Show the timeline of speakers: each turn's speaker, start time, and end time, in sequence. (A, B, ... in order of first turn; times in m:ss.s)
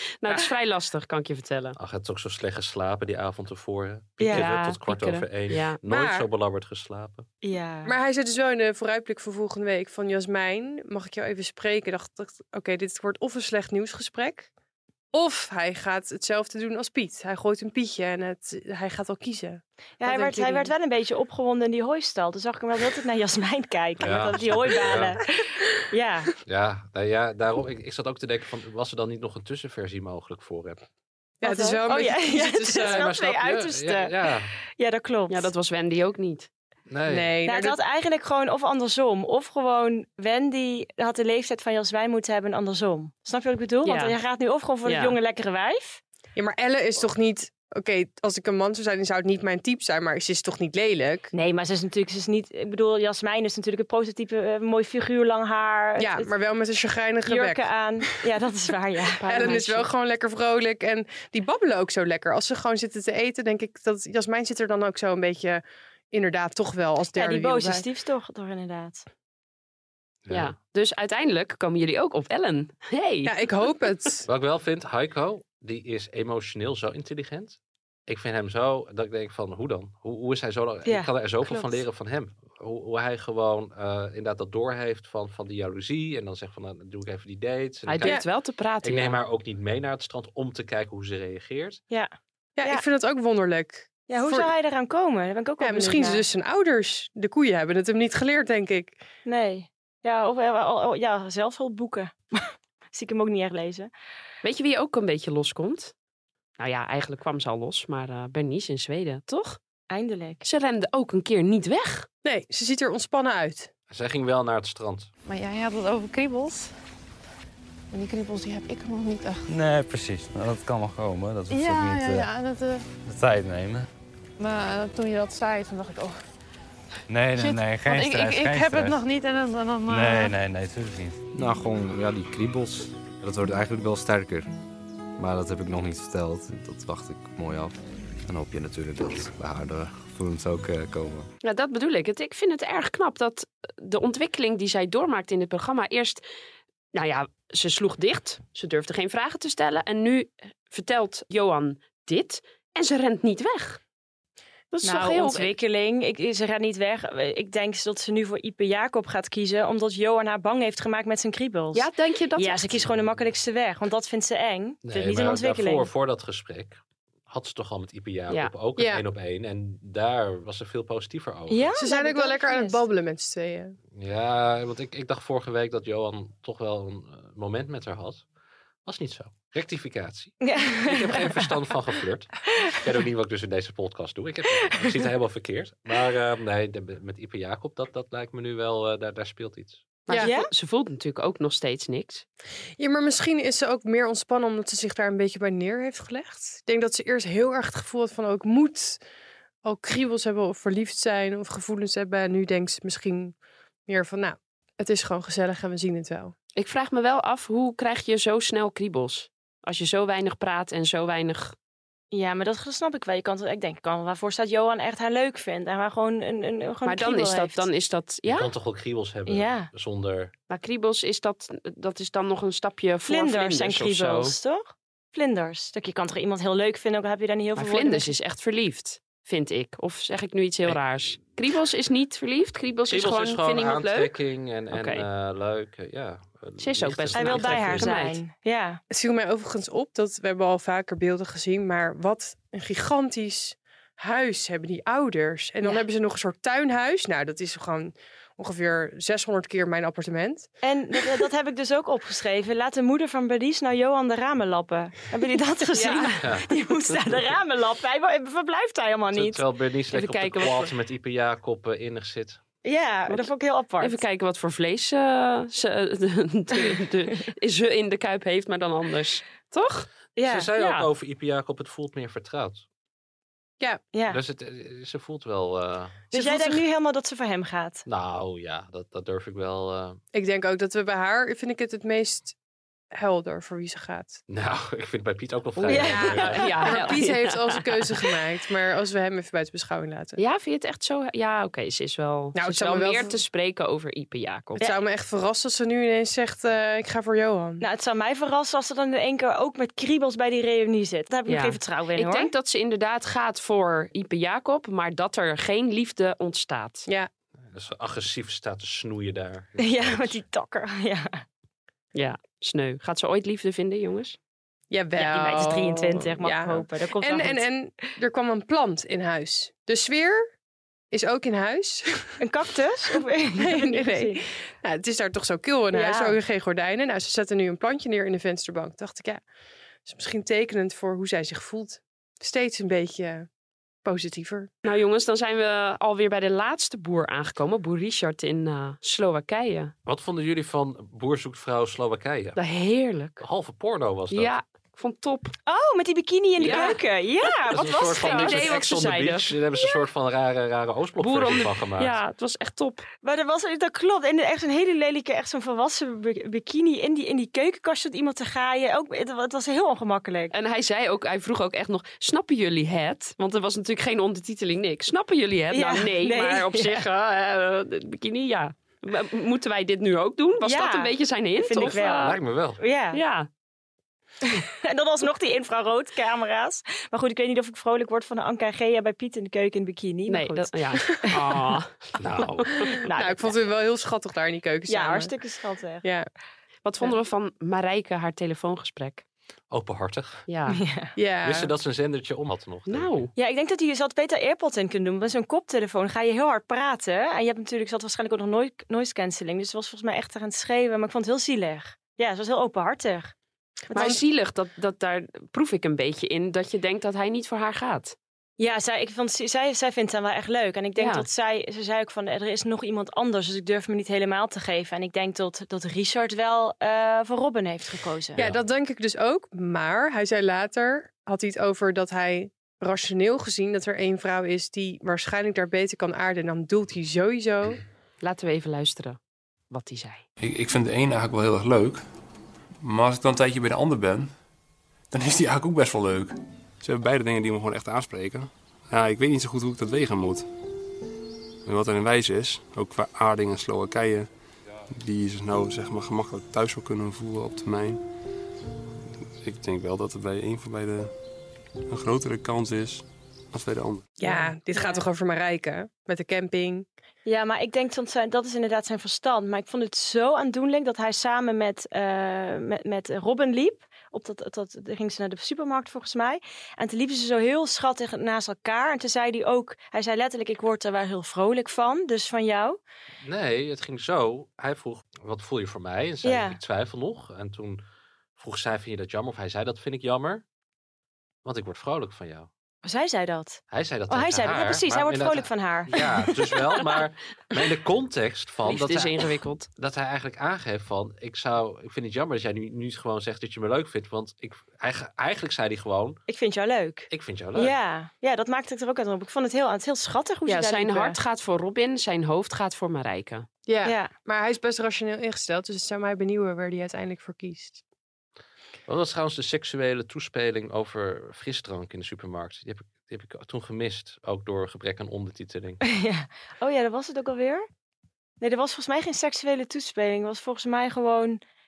0:00.2-0:01.8 A
0:01.8-0:07.3 B
0:04.2-0:04.5 C
0:04.2-0:05.8 A
0:05.9-0:06.3 D
0:07.4-0:08.0 C
0:07.8-0:14.5 D
0:15.1-0:20.7 D
0:20.0-0:26.3 C
0:24.0-0:25.2 B
0:26.4-0:30.8 B
0:31.4-0:33.1 D
0:31.4-0:34.2 C
0:32.8-0:34.5 B
0:34.8-0:35.5 C
0:35.3-0:36.5 A
0:36.9-0:37.4 B
0:37.1-0:37.8 D
0:37.5-0:46.0 C
0:43.8-0:44.2 A
0:44.8-0:45.2 A
0:46.4-0:51.3 D
0:51.3-0:56.3 C
0:56.0-0:57.7 D
0:57.3-0:59.6 C
0:59.2-0:59.9 A
0:59.3-1:07.9 D
1:07.1-1:09.0 C
1:10.2-1:10.5 B
1:10.3-1:13.4 A
1:13.2-1:14.3 D
1:14.3-1:28.2 B
1:20.8-1:21.8 C
1:27.9-1:29.2 A
1:28.8-1:31.8 B
1:32.6-1:34.5 D
1:34.1-1:36.2 C
1:35.6-1:39.0 D
1:39.2-1:43.9 C
1:44.4-1:45.9 A
1:46.6-1:49.6 A
1:49.9-1:50.4 C
1:50.4-1:52.1 A
1:52.2-1:53.7 D
1:53.9-1:55.1 B
1:55.2-1:56.7 E
1:57.9-1:59.4 E
1:59.5-2:02.3 F
2:01.5-2:02.8 E
2:03.0-2:03.9 F
2:04.4-2:06.2 E
2:07.1-2:09.0 F
2:07.4-2:10.4 E
2:09.9-2:11.2 F
2:11.3-2:14.5 G
2:15.2-2:17.7 G
2:18.3-2:21.3 G
2:21.4-2:26.2 A
2:26.9-2:33.8 A
2:34.7-2:35.6 A
2:34.8-2:45.9 C
2:41.7-2:42.8 A
2:42.9-2:43.3 B
2:44.8-2:46.8 B
2:47.3-2:51.7 B
2:48.8-2:49.0 D
2:51.5-2:52.8 C
2:51.8-2:53.8 D
2:54.0-2:58.2 B
2:58.8-3:09.9 B
3:00.4-3:01.5 C
3:10.1-3:12.2 A
3:10.2-3:10.5 C
3:12.8-3:19.0 D
3:19.6-3:23.4 D
3:23.9-3:26.3 D
3:26.6-3:31.6 A
3:32.1-3:37.7 C
3:36.8-3:38.5 A
3:38.3-3:40.3 B
3:39.3-3:39.7 C
3:40.5-3:44.4 A
3:43.1-3:48.1 C
3:47.6-3:54.2 A
3:52.9-3:57.9 B
3:54.7-3:55.0 A
3:56.6-3:58.2 A
3:57.2-3:58.8 C
3:58.9-4:10.5 D
4:10.6-4:19.4 C
4:15.7-4:16.2 A
4:16.2-4:16.5 B
4:19.1-4:22.4 B
4:19.9-4:20.7 A
4:22.6-4:24.0 C
4:23.1-4:29.9 A
4:30.2-4:30.9 C
4:30.3-4:32.6 B
4:33.9-4:34.2 C
4:34.1-4:36.0 B
4:36.1-4:37.8 C
4:36.1-4:36.6 D
4:37.9-4:40.0 B
4:40.1-4:42.4 D
4:42.9-4:44.2 D
4:44.3-4:46.5 B
4:45.6-4:48.1 A
4:45.7-4:46.6 C
4:45.8-4:50.2 D
4:50.2-4:54.6 A
4:52.4-4:53.2 D
4:54.6-4:57.6 D
4:57.6-5:02.3 C
5:01.3-5:06.9 A
5:07.5-5:10.2 B
5:09.6-5:11.2 C
5:11.9-5:14.2 A
5:14.7-5:20.3 D
5:15.0-5:17.4 C
5:20.9-5:22.2 D
5:22.2-5:24.2 C
5:23.4-5:29.2 D
5:25.7-5:26.2 C
5:29.8-5:33.3 D
5:33.8-5:34.5 D
5:34.6-5:39.7 A
5:39.9-5:42.4 B
5:42.4-5:43.2 A
5:43.2-5:44.3 B
5:44.1-5:45.3 A
5:45.5-5:48.7 C
5:46.4-5:46.8 A
5:46.4-5:46.8 B
5:47.5-5:49.3 A
5:47.5-5:51.9 B
5:51.0-5:52.8 A
5:53.0-6:00.3 C
6:00.3-6:12.2 A
6:05.5-6:06.9 C
6:10.4-6:13.0 C
6:11.7-6:12.6 B
6:12.9-6:13.3 A
6:14.2-6:21.6 C
6:20.1-6:21.8 A
6:22.0-6:22.6 B
6:22.8-6:23.3 C
6:22.9-6:25.2 D
6:24.7-6:25.9 C
6:26.6-6:29.0 A
6:29.5-6:30.2 B
6:30.3-6:30.6 A
6:30.5-6:31.0 C
6:31.0-6:31.5 D
6:31.2-6:33.0 B
6:32.7-6:33.1 A
6:33.2-6:43.1 C
6:43.7-6:44.0 C
6:43.7-6:44.0 D
6:43.7-6:48.0 A
6:48.4-6:58.2 C
6:50.8-6:51.1 A
6:58.2-7:07.6 D
7:08.0-7:09.0 A
7:09.5-7:10.0 A
7:10.2-7:11.8 H
7:12.6-7:14.2 H
7:14.9-7:20.3 H
7:21.4-7:24.1 H
7:24.7-7:27.8 H
7:29.2-7:30.9 H
7:31.7-7:33.9 H
7:34.0-7:36.7 D
7:34.0-7:34.8 C
7:37.1-7:52.6 C
7:53.0-7:57.6 B
7:56.0-7:56.4 C
7:58.2-8:00.2 B
8:01.2-8:02.3 B
8:02.6-8:06.6 C
8:03.5-8:16.0 B
8:08.4-8:09.5 A
8:16.1-8:21.0 C
8:16.9-8:17.5 B
8:20.3-8:23.3 A
8:23.5-8:27.6 D
8:23.6-8:23.9 C
8:28.7-8:35.6 B
8:35.7-8:37.5 C
8:38.2-8:41.2 C